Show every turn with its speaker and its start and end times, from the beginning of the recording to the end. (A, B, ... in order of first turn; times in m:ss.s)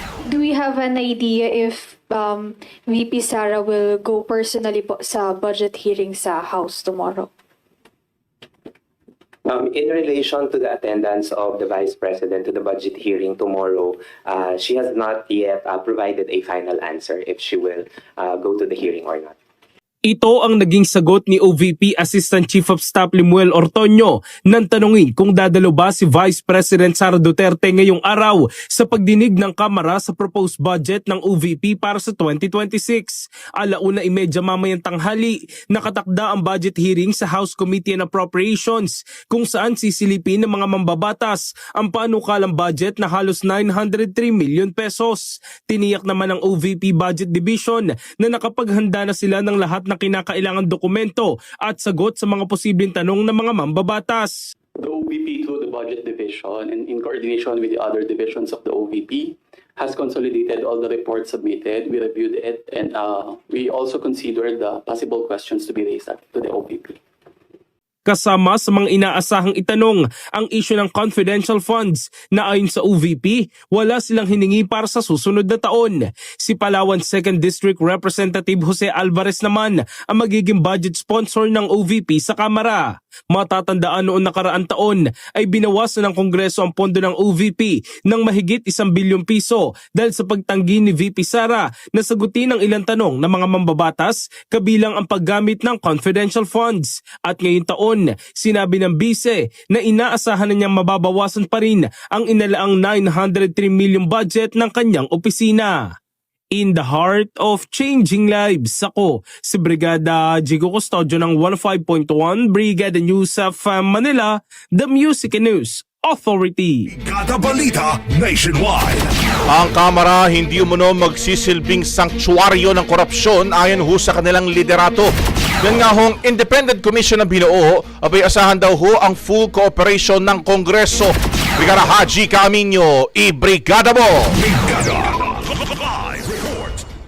0:00.3-0:07.3 A
0:09.5-0:19.4 B
0:20.0-0:54.4 C
0:54.8-1:07.0 D
1:08.1-1:45.9 C
1:46.5-1:56.9 C
1:56.9-1:59.1 E
1:59.5-2:05.1 F
2:05.6-2:14.4 F
2:14.3-2:16.8 E